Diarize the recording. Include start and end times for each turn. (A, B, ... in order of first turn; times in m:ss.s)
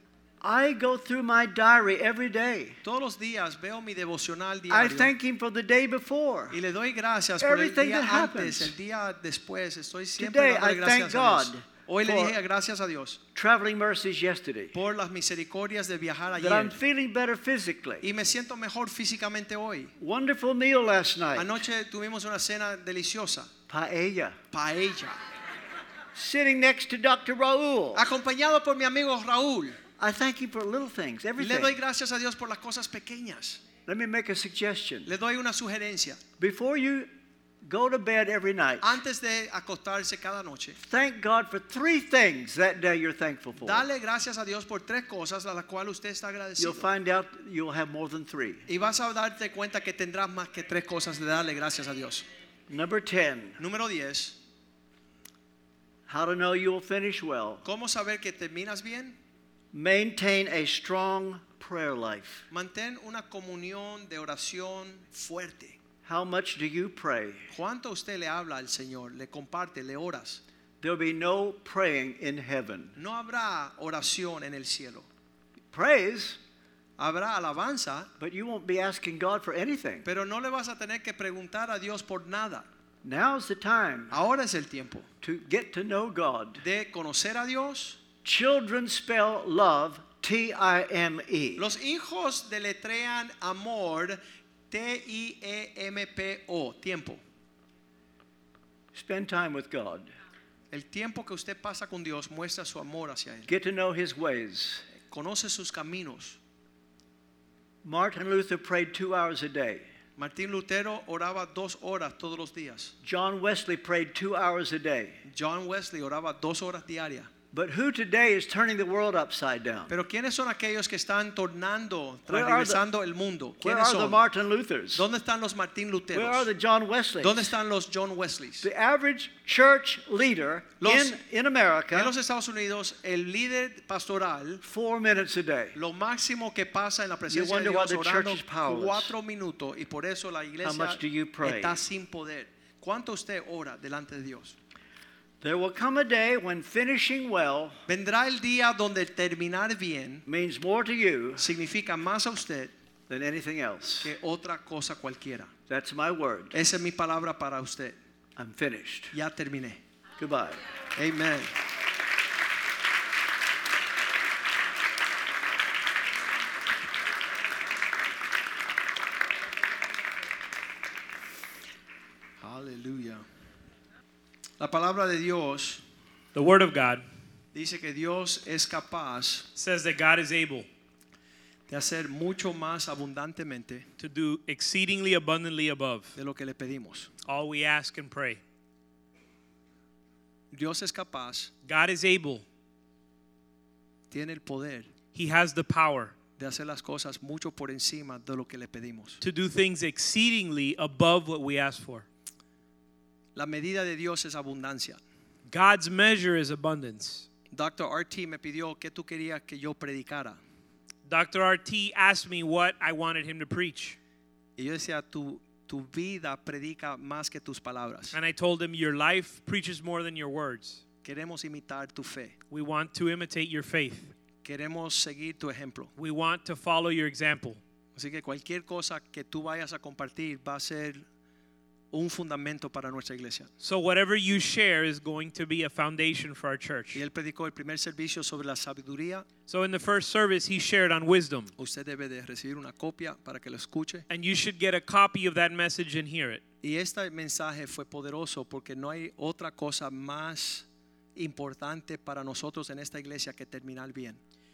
0:00.4-0:02.8 A
0:02.8-0:05.1 B
0:04.7-0:06.6 A
0:06.5-0:13.2 B
0:07.4-0:08.7 A
0:10.2-0:12.3 A
0:13.3-0:14.8 A
0:14.7-0:16.8 B
0:16.4-0:18.0 A
0:18.0-0:19.9 B
0:20.0-0:21.6 A
0:21.3-0:23.5 B
0:23.7-0:24.4 A
0:24.5-0:25.2 B
0:26.1-0:28.0 A
0:27.9-0:29.8 B
0:30.0-0:31.8 A
0:31.4-0:33.6 B
0:33.8-0:35.1 A
0:35.0-0:36.2 B
0:36.4-0:37.1 A
0:37.6-0:39.0 A
0:38.8-0:40.8 B
0:40.8-0:43.8 A
0:43.6-0:46.9 B
0:46.6-0:48.6 A
0:48.7-0:52.2 B
0:52.7-0:53.6 A
0:53.6-0:54.4 B
0:56.1-0:57.6 A
0:57.6-0:59.2 B
0:59.7-1:02.4 A
1:02.5-1:05.8 B
1:06.0-1:07.5 A
1:07.5-1:10.4 B
1:10.8-1:12.9 A
1:13.0-1:15.1 B
1:15.7-1:16.4 A
1:17.0-1:18.1 B
1:18.2-1:20.0 A
1:20.0-1:22.6 B
1:23.0-1:24.2 A
1:24.1-1:25.0 B
1:25.2-1:26.6 A
1:26.6-1:28.0 B
1:28.2-1:31.7 A
1:31.6-1:37.2 B
1:38.9-1:40.1 A
1:40.7-1:43.5 B
1:43.5-1:44.8 A
1:45.1-1:46.4 B
1:47.8-1:49.9 A
1:50.2-1:52.9 B
1:53.0-1:55.2 A
1:55.2-1:57.3 B
1:57.5-1:59.9 A
1:59.9-2:04.2 B
2:02.3-2:02.8 A
2:03.6-2:05.0 A
2:05.0-2:06.5 B
2:06.1-2:07.5 A
2:07.2-2:08.6 B
2:08.6-2:12.1 A
2:10.8-2:11.2 B
2:11.9-2:14.6 B
2:14.6-2:15.8 A
2:15.7-2:24.6 B
2:17.3-2:19.1 A
2:20.6-2:21.8 A
2:25.4-2:27.8 A
2:27.9-2:30.2 B
2:30.3-2:31.4 A
2:31.4-2:32.7 B
2:33.1-2:34.1 A
2:34.0-2:35.5 B
2:35.7-2:36.5 A
2:36.5-2:38.0 B
2:38.4-2:39.1 A
2:39.1-2:39.8 B
2:40.2-2:40.6 A
2:41.0-2:41.5 B
2:52.4-2:53.2 B
2:54.6-2:55.8 B
2:56.3-2:57.0 C
2:57.5-2:59.5 B
2:59.6-3:00.7 C
3:01.7-3:03.9 B
3:04.0-3:06.1 C
3:06.2-3:07.1 B
3:07.2-3:08.4 C
3:10.5-3:11.5 B
3:11.6-3:12.4 C
3:14.1-3:14.9 B
3:15.1-3:16.1 C
3:16.4-3:19.2 B
3:19.2-3:22.0 C
3:23.3-3:25.0 B
3:25.5-3:27.3 C
3:27.5-3:30.4 B
3:31.0-3:34.0 C
3:34.6-3:38.2 B
3:38.1-3:40.8 C
3:41.0-3:42.4 B
3:42.5-3:44.1 C
3:44.4-3:45.9 B
3:46.0-3:47.6 C
3:47.9-3:51.0 B
3:51.9-3:53.5 B
3:53.6-3:57.0 C
3:56.9-3:59.3 B
3:59.5-4:01.5 C
4:01.6-4:04.0 B
4:04.1-4:06.4 C
4:06.6-4:14.2 B